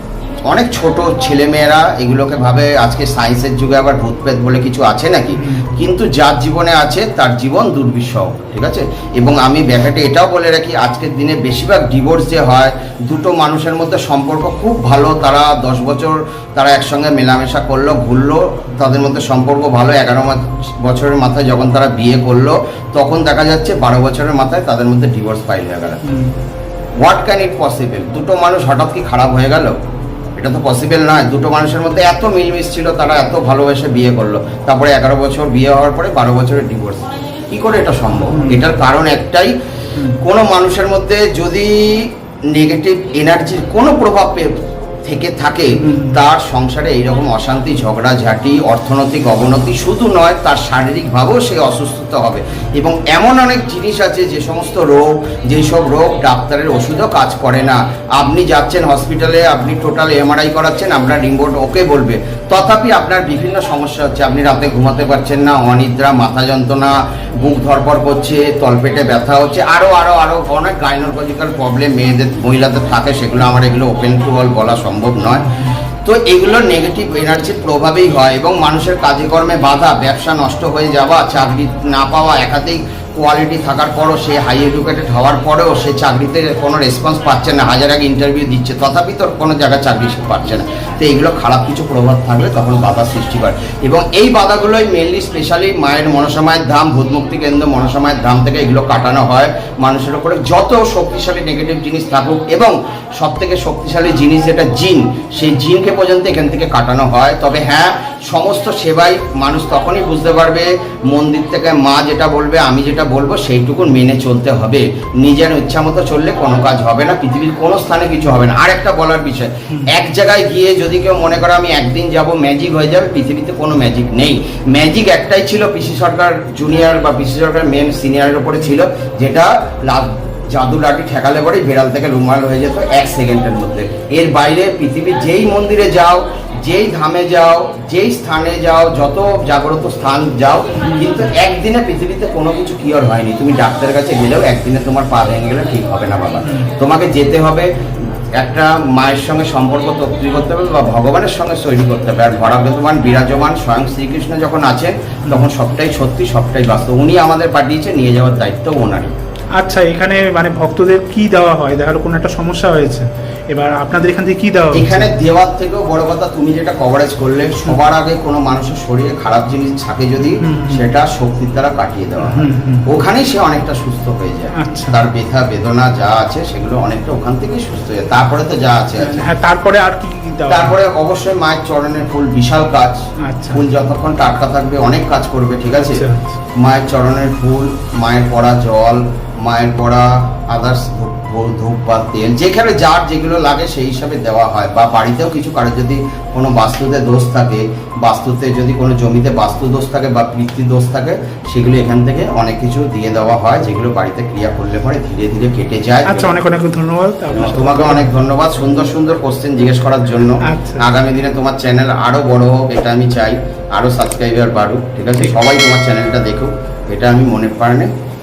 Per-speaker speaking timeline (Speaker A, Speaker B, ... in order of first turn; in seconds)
Speaker A: 0.5-26.0, 27.0-29.8, 30.4-39.5, 40.2-75.5, 76.0-159.1, 164.7-179.3, 180.5-186.0, 186.6-206.3, 207.3-217.9
Speaker B: 5.3-5.9, 26.1-26.4, 38.2-38.6, 40.0-40.2, 45.8-46.2, 75.3-75.8, 140.8-141.3, 146.4-146.7, 155.2-155.5, 159.6-165.1, 170.4-170.9, 172.2-172.9, 174.6-175.1, 179.0-180.8, 183.3-183.7, 185.7-186.4, 206.1-208.1, 210.4-210.9